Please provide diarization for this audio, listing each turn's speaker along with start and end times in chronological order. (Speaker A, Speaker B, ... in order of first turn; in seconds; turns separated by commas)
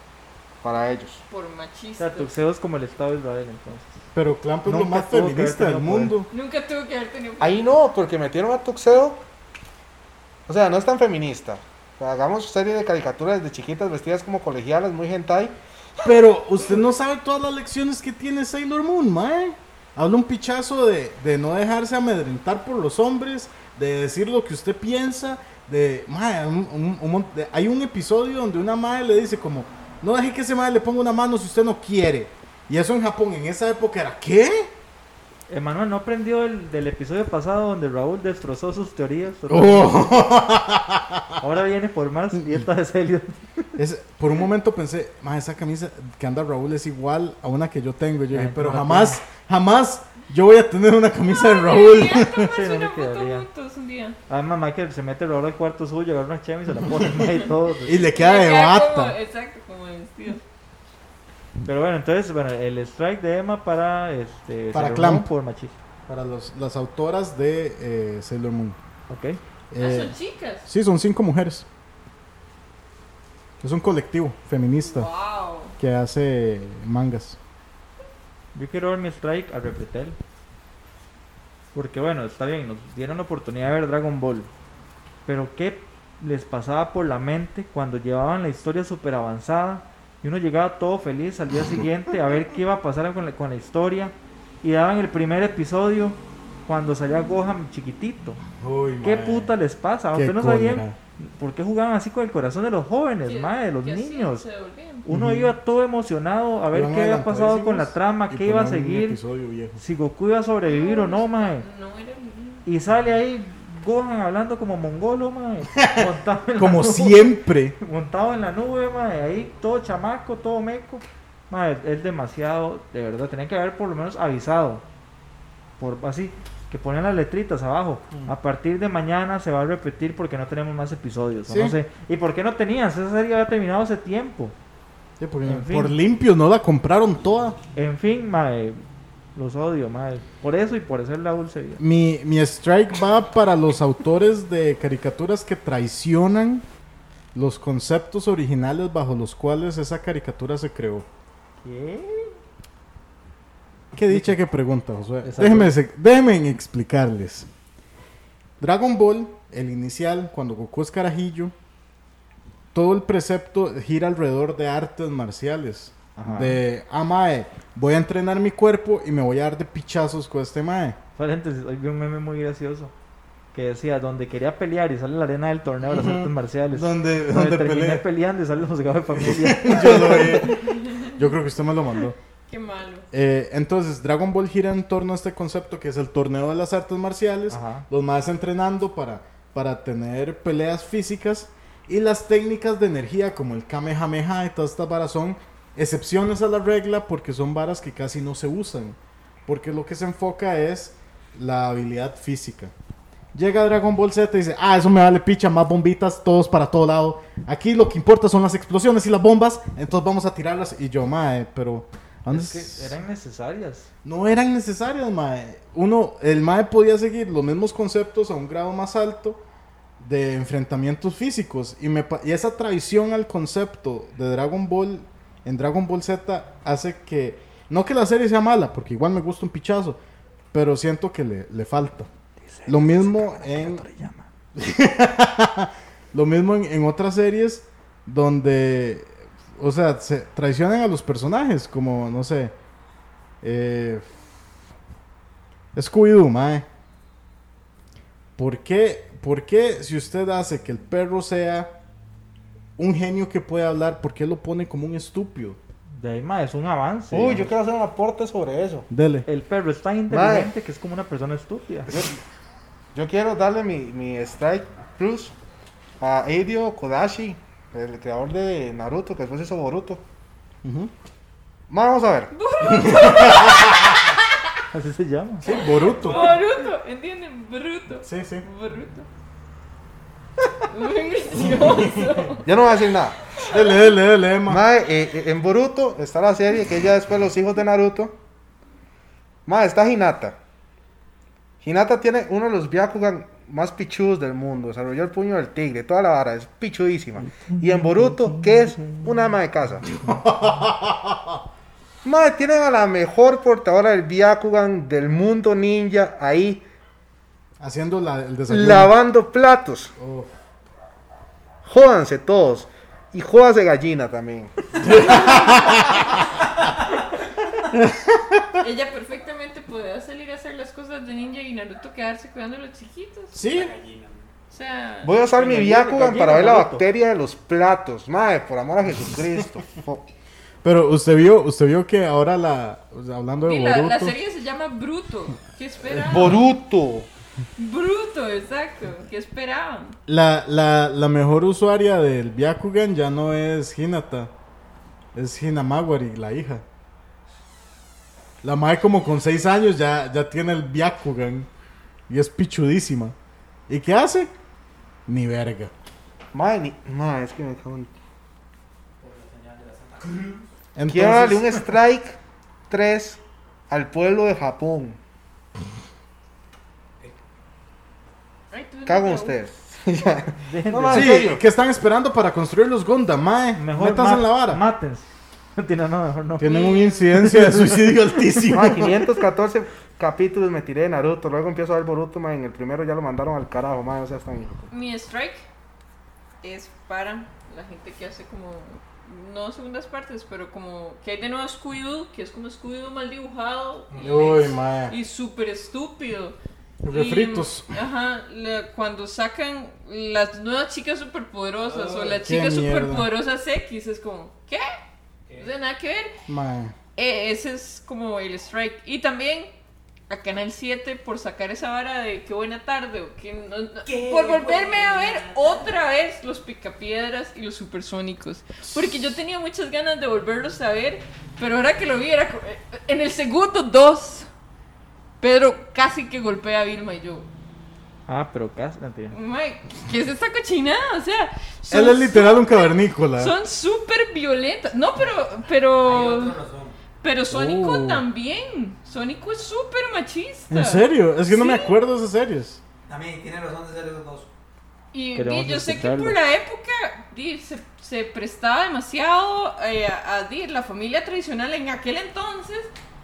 Speaker A: 0.6-1.2, Speaker B: 1.3-2.3, Speaker C: 2.0-4.0, Speaker D: 4.1-6.3, Speaker C: 4.7-6.2, Speaker B: 6.3-7.6, Speaker A: 7.4-9.2, Speaker A: 10.5-15.6, Speaker D: 16.0-34.7, Speaker C: 35.5-40.1, Speaker D: 39.5-41.4, Speaker C: 41.4-43.7, Speaker D: 43.8-52.6, Speaker C: 48.3-49.2, Speaker B: 51.3-54.2, Speaker C: 52.5-53.5, Speaker C: 54.3-58.1, Speaker D: 57.8-59.2, Speaker B: 58.0-60.4, Speaker C: 61.6-65.7, Speaker D: 64.7-65.3, Speaker D: 66.1-68.8, Speaker C: 69.1-69.4, Speaker D: 69.7-71.7, Speaker B: 69.8-70.7, Speaker D: 73.6-75.1, Speaker B: 74.8-75.8, Speaker D: 75.8-77.4, Speaker C: 78.5-80.2, Speaker C: 81.7-84.5, Speaker C: 85.2-98.4, Speaker D: 98.6-99.5, Speaker C: 99.0-104.5, Speaker D: 100.1-101.0, Speaker B: 103.2-105.0, Speaker C: 105.0-109.2, Speaker D: 105.1-105.5, Speaker D: 106.7-109.8, Speaker C: 109.8-111.7, Speaker B: 110.7-112.7, Speaker C: 112.6-124.8, Speaker D: 115.8-116.0, Speaker D: 116.6-117.8, Speaker C: 125.8-134.5, Speaker D: 131.5-131.8, Speaker D: 135.2-137.6, Speaker C: 135.4-136.0, Speaker C: 137.7-138.8, Speaker C: 139.3-141.8, Speaker D: 141.8-146.6, Speaker D: 147.3-151.1, Speaker C: 151.6-152.4, Speaker D: 153.9-157.5, Speaker C: 154.1-154.3, Speaker C: 155.2-155.7, Speaker D: 158.6-161.5, Speaker D: 162.7-171.0, Speaker C: 166.2-166.6, Speaker C: 171.2-172.9, Speaker C: 173.5-180.6, Speaker D: 175.8-178.0, Speaker D: 179.1-182.2, Speaker B: 180.5-181.1, Speaker B: 182.5-183.1, Speaker D: 183.1-202.7, Speaker C: 187.5-187.9, Speaker D: 203.3-212.9, Speaker C: 212.3-213.9, Speaker D: 214.0-219.4, Speaker D: 220.0-230.0, Speaker D: 230.5-232.1, Speaker C: 232.4-234.3, Speaker D: 232.7-233.8, Speaker D: 234.5-242.5, Speaker D: 243.4-244.1, Speaker D: 245.7-246.7, Speaker D: 248.4-251.7, Speaker D: 252.8-255.6, Speaker C: 255.9-257.5, Speaker A: 257.1-258.9, Speaker D: 258.9-259.3, Speaker C: 259.2-261.9, Speaker A: 260.1-260.5, Speaker A: 261.9-262.1, Speaker A: 262.9-265.3, Speaker A: 266.0-270.0, Speaker D: 270.6-270.9, Speaker A: 271.7-272.3, Speaker B: 272.3-274.3, Speaker D: 272.6-273.9, Speaker C: 274.7-275.5, Speaker D: 275.4-276.4, Speaker B: 275.4-279.1, Speaker D: 278.0-278.4, Speaker B: 280.6-282.5, Speaker D: 281.4-282.3, Speaker A: 282.4-283.2, Speaker B: 283.3-283.8, Speaker D: 283.4-284.6, Speaker A: 284.5-288.1, Speaker A: 289.4-290.4, Speaker A: 291.6-299.9, Speaker D: 299.9-301.4, Speaker A: 302.0-306.6, Speaker D: 307.6-308.9, Speaker A: 308.5-309.9, Speaker D: 310.0-310.3, Speaker A: 311.6-314.6, Speaker D: 314.8-316.1, Speaker B: 314.9-316.2, Speaker E: 316.5-317.5, Speaker D: 317.7-318.6, Speaker B: 318.6-323.4, Speaker D: 323.3-323.7, Speaker E: 323.4-324.3, Speaker B: 324.5-325.1, Speaker A: 325.0-330.1, Speaker C: 325.3-326.9, Speaker D: 330.6-334.2, Speaker B: 333.4-336.4, Speaker A: 335.9-337.1, Speaker B: 337.6-340.0, Speaker D: 340.1-344.3, Speaker D: 345.1-346.6, Speaker D: 348.4-351.5, Speaker D: 352.1-353.1, Speaker D: 353.7-354.3, Speaker D: 355.1-355.7, Speaker A: 356.3-357.9, Speaker E: 359.0-360.5, Speaker D: 360.7-361.6, Speaker A: 360.9-362.2, Speaker A: 362.7-365.0, Speaker B: 368.5-369.4, Speaker A: 368.9-371.4, Speaker C: 370.4-371.2, Speaker D: 370.9-374.6, Speaker C: 373.6-378.6, Speaker D: 376.4-379.0, Speaker B: 376.4-377.1, Speaker A: 378.5-384.7, Speaker B: 384.7-385.4, Speaker B: 386.4-396.4, Speaker E: 393.9-394.4, Speaker D: 394.0-394.9, Speaker D: 396.8-397.7, Speaker B: 396.9-404.7, Speaker E: 401.6-402.2, Speaker D: 402.2-403.1, Speaker E: 405.3-405.5, Speaker B: 405.4-406.2, Speaker D: 406.3-406.8, Speaker B: 406.9-409.5, Speaker B: 410.1-424.3, Speaker E: 413.8-415.7, Speaker B: 425.2-427.3, Speaker C: 428.1-429.2, Speaker B: 429.1-436.4, Speaker D: 431.7-433.3, Speaker E: 435.8-436.8, Speaker B: 437.0-441.8, Speaker D: 437.3-438.0, Speaker D: 440.5-442.6, Speaker E: 442.9-444.3, Speaker B: 444.9-452.7, Speaker C: 445.1-446.2